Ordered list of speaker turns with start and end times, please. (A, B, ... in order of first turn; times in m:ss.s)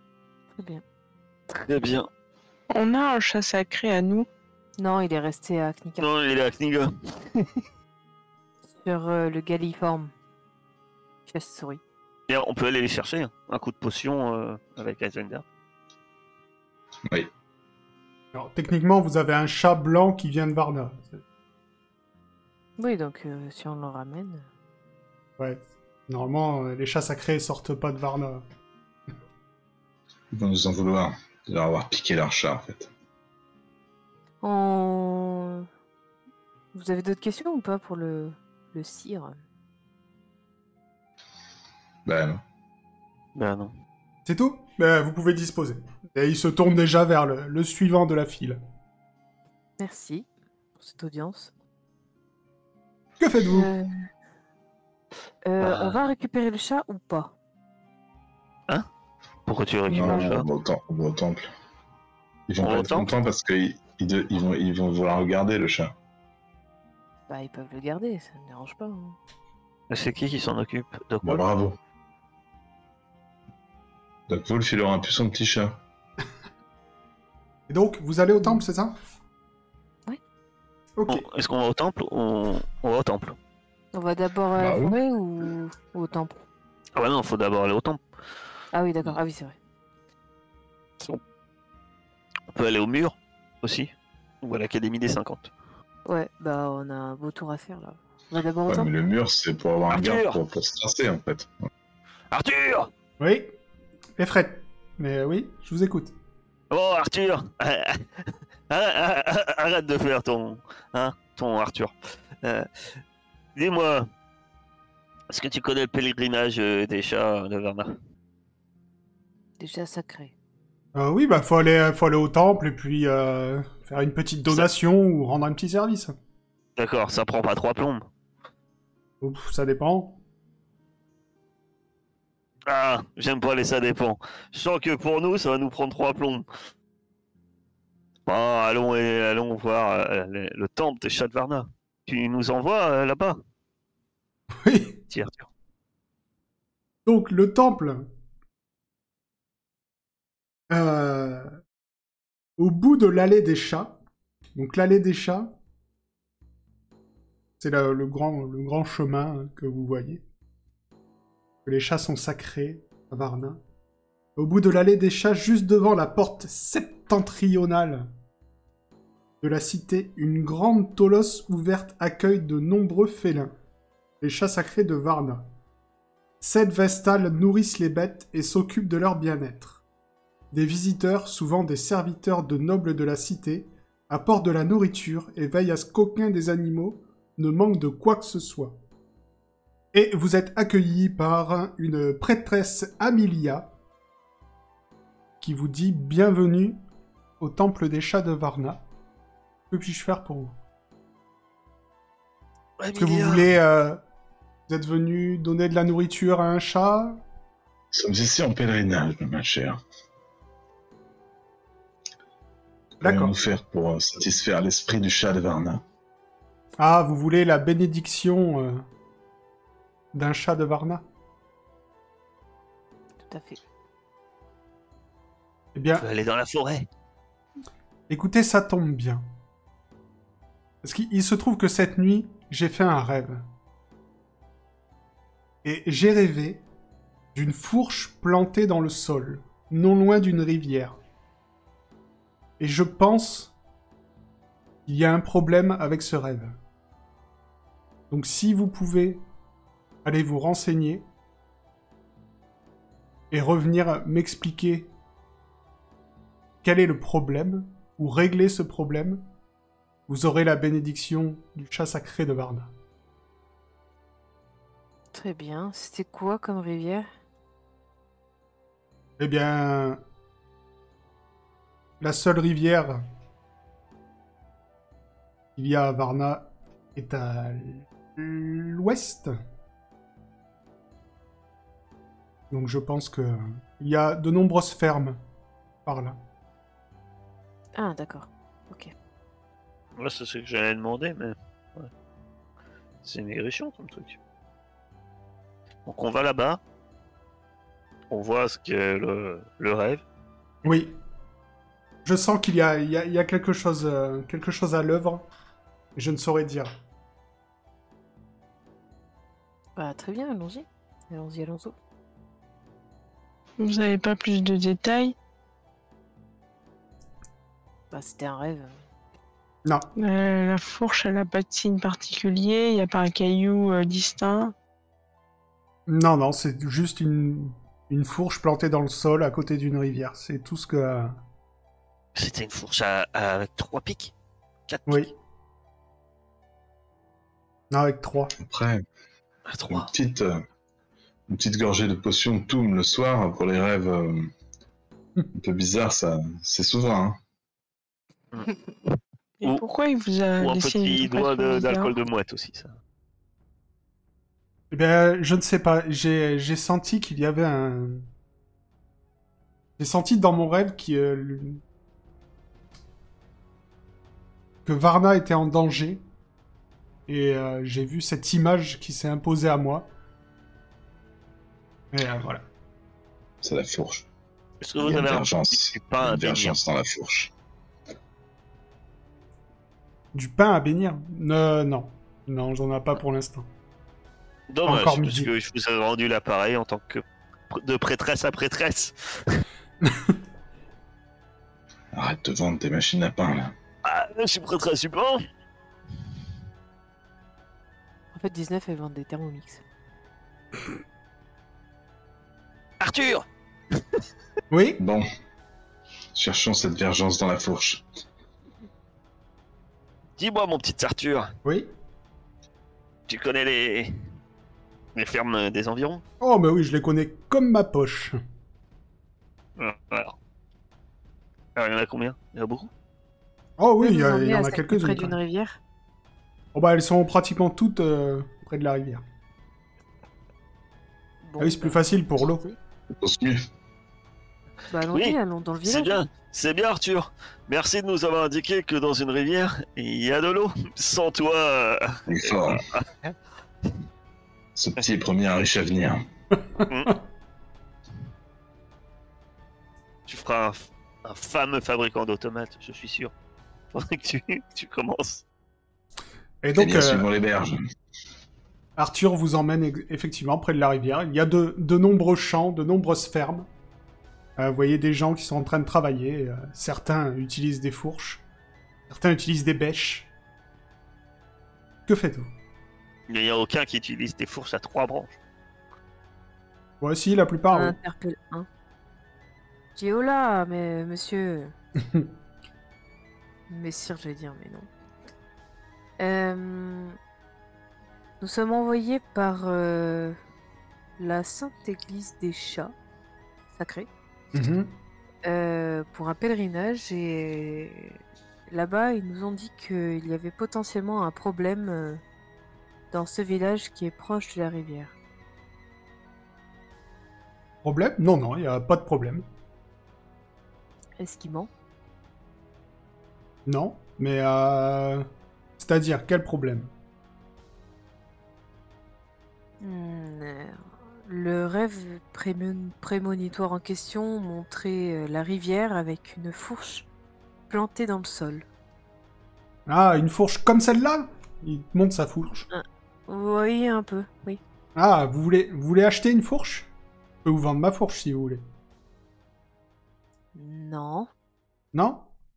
0:01.5-0:02.1 A
0:02.7-0:04.3 B
0:04.8-0:06.1 C
0:06.0-0:07.5 A
0:08.8-0:10.1 C
0:11.3-0:11.8 C
0:12.3-0:15.4 A
0:18.3-0:21.2 D
0:22.8-0:24.5 C
0:25.4-0:28.4 D
0:30.3-0:32.9 E
0:34.4-0:35.7 C
0:36.7-0:39.4 C
0:42.0-0:42.4 E
0:43.4-0:43.7 A
0:44.2-0:48.6 D
0:49.8-0:50.3 C
0:50.8-0:51.5 C
0:53.2-0:53.7 D
0:53.5-0:54.0 C
0:55.4-0:57.3 C
0:55.6-0:56.0 A
0:59.5-1:00.5 A
0:59.9-1:01.5 E
1:02.5-1:05.9 E
1:02.6-1:03.2 A
1:07.3-1:09.2 C
1:09.9-1:11.4 A
1:11.2-1:11.8 E
1:14.3-1:15.8 E
1:17.7-1:19.0 D
1:21.0-1:21.3 D
1:21.1-1:23.4 A
1:23.9-1:26.4 C
1:24.6-1:25.0 E
1:27.0-1:28.0 A
1:28.7-1:29.6 C
1:32.5-1:35.5 A
1:36.1-1:38.9 C
1:38.7-1:41.6 E
1:39.9-1:40.4 A
1:42.3-1:42.9 A
1:43.2-1:43.5 D
1:44.2-1:46.1 D
1:46.7-1:52.7 A
1:53.6-1:54.1 A
1:55.3-1:58.0 A
1:59.6-2:00.3 C
2:01.0-2:06.1 D
2:06.8-2:08.1 A
2:09.2-2:10.2 D
2:12.7-2:16.5 A
2:18.3-2:23.4 A
2:24.6-2:25.0 D
2:25.1-2:25.5 A
2:27.0-2:28.1 D
2:30.7-2:31.5 D
2:32.6-2:34.0 D
2:34.6-2:35.6 D
2:37.6-2:40.2 D
2:41.7-2:43.6 D
2:44.4-2:48.1 D
2:49.4-2:53.5 D
2:54.2-2:55.5 D
2:56.4-2:59.8 D
3:00.5-3:08.8 D
3:09.9-3:13.7 D
3:15.4-3:16.8 D
3:17.4-3:18.8 D
3:19.7-3:20.6 D
3:22.8-3:23.5 A
3:23.0-3:24.0 D
3:24.7-3:27.2 D
3:27.9-3:29.8 E
3:33.0-3:35.8 E
3:33.0-3:33.4 D
3:36.8-3:38.8 D
3:40.1-3:41.0 D
3:43.3-3:43.6 C
3:45.7-3:46.0 D
3:45.9-3:46.9 A
3:48.1-3:49.2 D
3:50.8-3:53.4 D
3:55.6-3:56.6 D
3:57.4-4:01.0 D
4:02.6-4:03.5 D
4:04.9-4:06.6 D
4:08.1-4:09.2 D
4:10.0-4:11.1 D
4:13.3-4:14.9 D
4:16.6-4:19.3 D
4:20.1-4:22.7 D
4:25.1-4:27.1 C
4:29.2-4:30.0 D
4:32.0-4:33.0 D
4:35.6-4:39.3 D
4:42.5-4:45.2 D
4:45.9-4:46.2 D
4:47.8-4:48.9 C
4:50.0-4:51.9 A
4:53.0-4:54.2 A
4:55.9-4:56.6 A
4:58.1-5:00.0 A
5:00.6-5:01.0 D
5:02.0-5:05.3 D
5:06.0-5:06.7 D
5:09.8-5:11.8 C
5:13.6-5:15.2 B
5:17.9-5:18.7 C
5:20.0-5:24.5 B
5:25.9-5:31.1 D
5:32.2-5:34.1 A
5:34.7-5:35.1 A
5:34.9-5:35.1 D
5:37.7-5:38.4 D
5:38.4-5:38.8 E
5:39.5-5:39.9 A
5:39.7-5:40.4 E
5:41.3-5:44.3 E
5:45.4-5:47.2 E
5:49.4-5:52.0 B
5:50.4-5:52.8 A
5:54.7-5:58.1 D
5:59.8-6:01.6 D
6:04.7-6:06.0 D
6:07.1-6:09.9 D
6:11.9-6:12.4 D
6:13.4-6:14.1 E
6:14.6-6:16.6 A
6:14.8-6:17.3 E
6:20.1-6:23.5 D
6:24.5-6:29.4 A
6:24.7-6:25.3 D
6:29.8-6:30.2 D
6:31.9-6:33.5 E
6:33.8-6:35.2 A
6:38.1-6:39.6 C
6:42.8-6:43.3 A
6:44.5-6:44.8 D
6:44.8-6:45.1 E
6:46.2-6:47.8 E
6:50.2-6:51.3 A
6:51.4-6:51.7 D
6:53.1-6:53.9 A
6:55.0-6:56.0 A
6:56.2-6:58.2 D
6:59.6-7:00.2 A
7:01.6-7:02.7 A
7:03.6-7:05.2 D
7:03.8-7:05.6 C
7:06.5-7:09.0 D
7:11.2-7:11.9 C
7:11.4-7:12.5 D
7:13.0-7:13.4 E
7:14.7-7:16.0 C
7:14.9-7:23.2 A
7:22.1-7:22.6 E
7:24.6-7:26.0 E
7:26.7-7:27.0 A
7:30.1-7:33.1 A
7:33.7-7:35.2 A
7:36.4-7:37.1 D
7:36.6-7:37.6 E
7:38.8-7:43.5 D
7:44.4-7:48.2 D
7:48.9-7:50.1 D
7:51.9-7:52.3 D
7:53.1-7:55.2 A
7:56.8-7:57.8 D
7:57.5-7:58.5 C
7:59.8-8:01.5 C
8:01.8-8:02.1 D
8:03.5-8:04.7 C
8:06.0-8:07.0 C
8:08.2-8:10.2 C
8:11.0-8:12.7 C
8:13.5-8:13.9 C
8:14.3-8:14.8 D
8:15.2-8:22.0 C
8:22.9-8:25.0 C
8:27.6-8:29.2 D
8:31.0-8:31.5 C
8:33.5-8:35.1 D
8:35.6-8:36.7 D
8:39.6-8:46.9 C
8:47.5-8:48.5 C
8:49.7-8:52.5 D
8:52.5-8:54.4 C
8:54.8-8:56.7 D
8:57.2-8:58.4 D
9:00.4-9:01.1 C
9:01.7-9:02.1 D